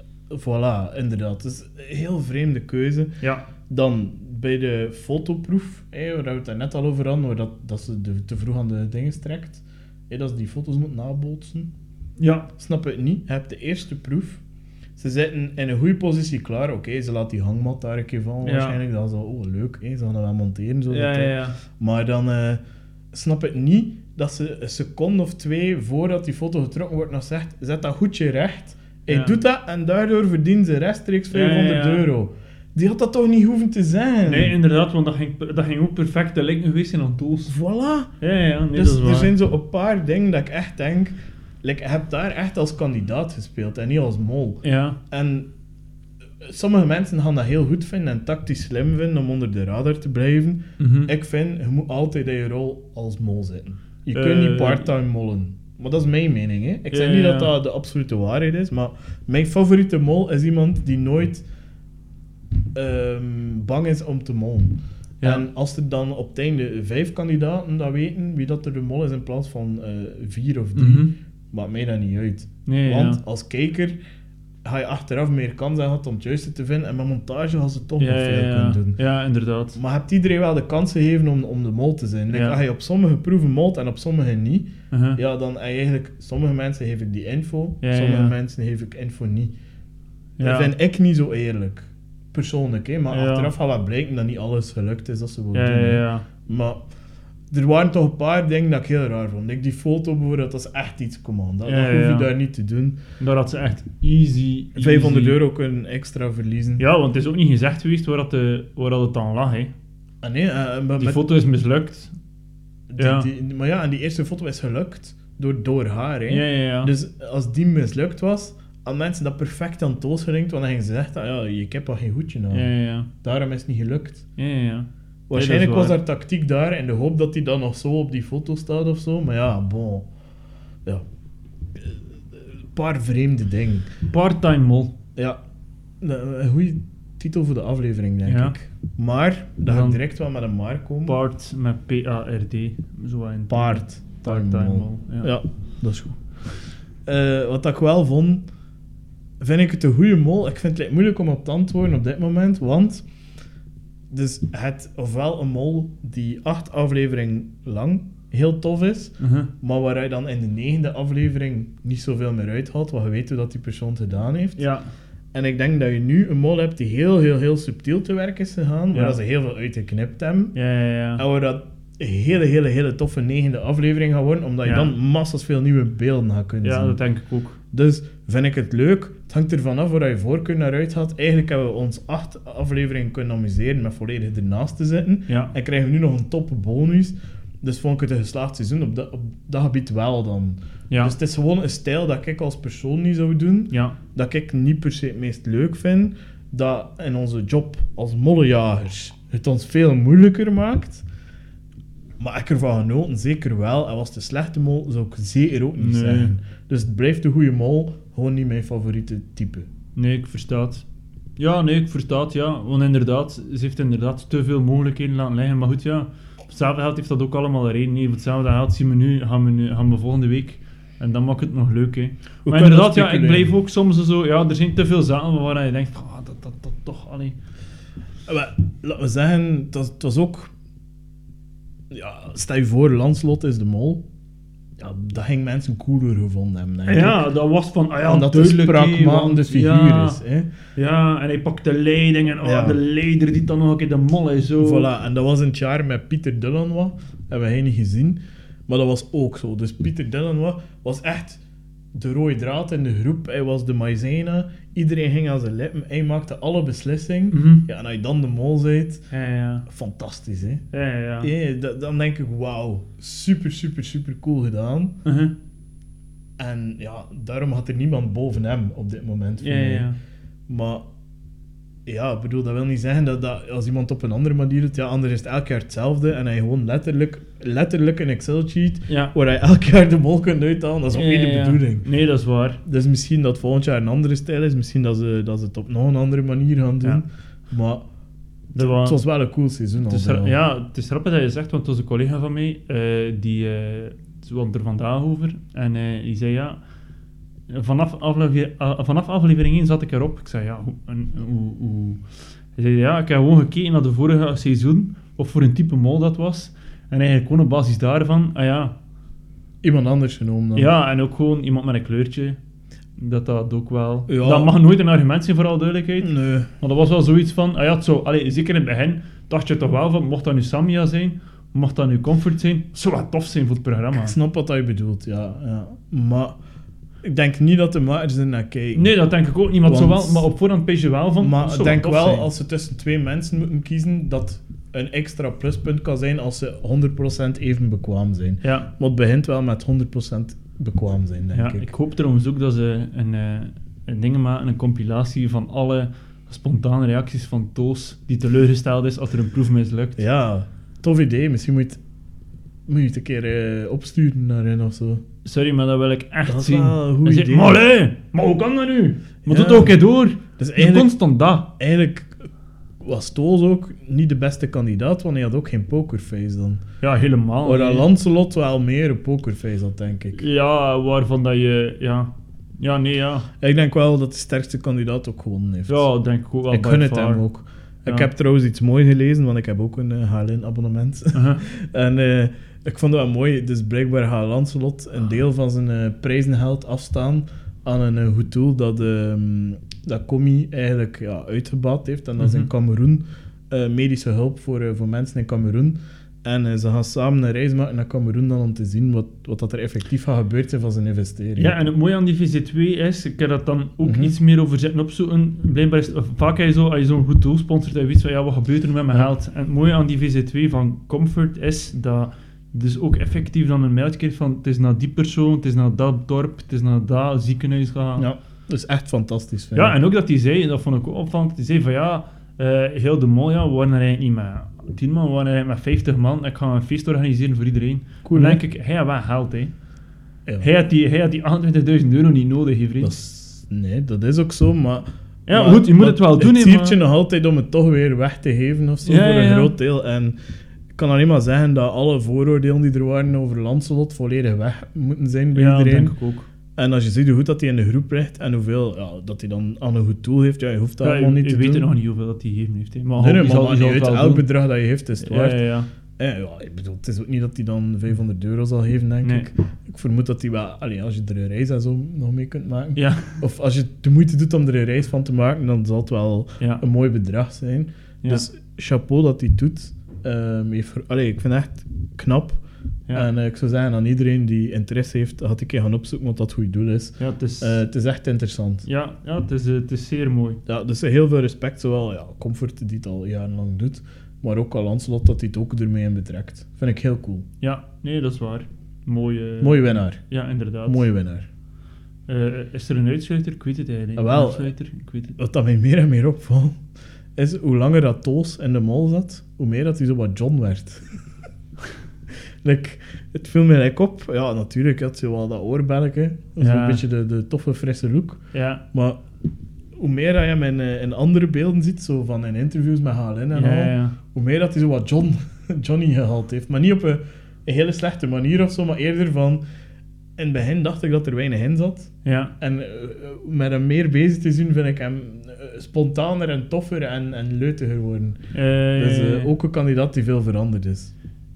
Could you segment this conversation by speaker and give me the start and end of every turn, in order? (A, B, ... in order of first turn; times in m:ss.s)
0:00.3-0:03.1 A
0:03.7-0:11.7 A
0:12.2-0:12.5 B
0:12.6-0:14.4 A
0:15.0-0:22.6 A
0:18.4-0:18.8 B
0:20.9-0:21.6 B
0:23.1-0:34.6 A
0:29.1-0:29.4 B
0:31.3-0:32.1 B
0:34.3-0:37.5 B
0:37.5-0:38.1 A
0:38.2-0:39.3 B
0:38.7-0:45.5 A
0:44.6-0:45.0 B
0:46.4-1:01.4 A
0:50.8-0:51.1 B
0:54.1-0:54.9 B
0:56.9-0:57.5 B
1:02.8-1:13.9 A
1:05.2-1:05.4 B
1:10.8-1:11.1 B
1:12.6-1:13.2 B
1:14.6-1:19.0 A
1:18.0-1:19.8 B
1:19.8-1:29.5 A
1:22.3-1:22.6 B
1:24.9-1:25.2 B
1:27.8-1:28.4 B
1:30.4-1:30.7 B
1:30.4-1:36.8 A
1:33.1-1:33.5 B
1:35.5-1:36.3 B
1:37.5-1:43.0 A
1:41.6-1:42.3 B
1:43.2-1:45.4 B
1:44.8-1:46.8 A
1:46.8-1:49.7 B
1:50.2-1:51.2 A
1:51.0-1:52.1 B
1:52.9-2:02.7 A
1:53.0-1:53.3 B
1:56.3-1:56.9 B
2:02.5-2:03.1 B
2:03.2-2:04.2 A
2:04.4-2:06.0 B
2:05.3-2:10.1 A
2:11.8-2:13.9 A
2:14.1-2:14.9 B
2:16.0-2:21.2 A
2:18.3-2:18.6 B
2:19.6-2:20.0 B
2:21.1-2:25.3 B
2:23.5-2:26.2 A
2:27.1-2:28.4 A
2:29.4-2:33.0 A
2:34.1-2:44.6 A
2:39.2-2:39.5 B
2:44.6-2:44.9 B
2:45.3-2:50.5 A
2:48.9-2:49.2 B
2:50.5-2:51.2 B
2:51.2-2:57.0 A
2:54.6-2:54.9 B
2:56.6-2:57.6 B
2:57.7-3:21.0 A
3:05.3-3:05.5 B
3:13.7-3:14.0 B
3:22.2-3:29.7 A
3:25.8-3:26.3 B
3:29.9-3:30.8 B
3:31.4-3:47.4 B
3:42.5-3:43.5 A
3:48.3-3:50.5 A
3:51.9-3:54.0 A
3:54.8-3:57.2 A
3:56.9-4:00.2 B
3:58.0-4:00.5 A
4:00.8-4:04.9 B
4:02.4-4:02.8 A
4:04.6-4:11.4 A
4:11.9-4:19.1 A
4:17.3-4:17.6 B
4:19.1-4:19.6 B
4:19.7-4:20.6 A
4:20.7-4:21.3 B
4:21.2-4:24.9 A
4:25.0-4:25.3 B
4:26.4-4:29.9 A
4:29.4-4:30.0 B
4:30.5-4:30.8 A
4:31.9-4:41.9 A
4:38.9-4:39.1 B
4:40.9-4:42.6 B
4:42.6-4:47.8 A
4:48.5-4:50.4 A
4:48.5-4:49.0 B
4:49.9-4:56.6 B
4:57.5-5:02.0 B
5:02.6-5:08.8 B
5:09.6-5:10.7 A
5:10.5-5:12.4 B
5:13.0-5:24.2 B
5:14.1-5:14.6 A
5:16.0-5:16.5 A
5:23.9-5:26.4 A
5:27.0-5:28.9 A
5:28.8-5:32.3 B
5:29.6-5:30.3 A
5:31.2-5:41.7 A
5:38.4-5:38.7 B
5:41.3-5:50.0 B
5:50.0-5:51.8 A
5:52.7-5:55.0 A
5:55.2-6:01.5 B
5:56.2-5:57.6 A
5:59.3-5:59.8 A
6:00.4-6:00.9 A
6:01.6-6:02.2 A
6:02.8-6:06.6 A
6:06.8-6:07.9 B
6:07.4-6:10.2 A
6:10.2-6:13.3 B
6:13.4-6:15.9 A
6:15.7-6:17.2 B
6:16.5-6:41.5 A
6:21.1-6:21.4 B
6:32.2-6:32.5 B
6:41.4-6:58.1 B
6:43.8-6:44.1 A
6:58.0-6:59.8 A
6:59.5-7:09.5 B
7:08.0-7:08.4 A
7:10.4-7:12.9 B
7:12.8-7:20.2 A
7:15.3-7:16.8 B
7:18.8-7:19.5 B
7:20.8-7:26.0 A
7:25.3-7:26.3 B
7:26.6-7:31.6 A
7:30.8-7:34.3 B
7:33.0-7:35.4 A
7:35.0-7:35.7 B
7:36.0-7:52.4 A
7:39.0-7:39.3 B
7:42.8-7:43.2 B
7:52.9-7:58.6 A
7:57.0-7:57.6 B
7:58.6-8:00.4 B
8:00.5-8:07.2 A
8:07.4-8:10.9 B
8:09.4-8:10.0 A
8:10.6-8:11.3 A
8:12.1-8:15.2 B
8:14.0-8:14.5 A
8:15.2-8:16.6 A
8:17.2-8:20.8 A
8:22.4-8:29.0 A
8:26.4-8:26.8 B
8:28.3-8:28.6 B
8:29.8-8:39.4 A
8:33.3-8:34.0 B
8:40.2-8:48.2 A
8:42.0-8:42.3 B
8:48.3-8:49.3 B
8:48.8-8:50.9 A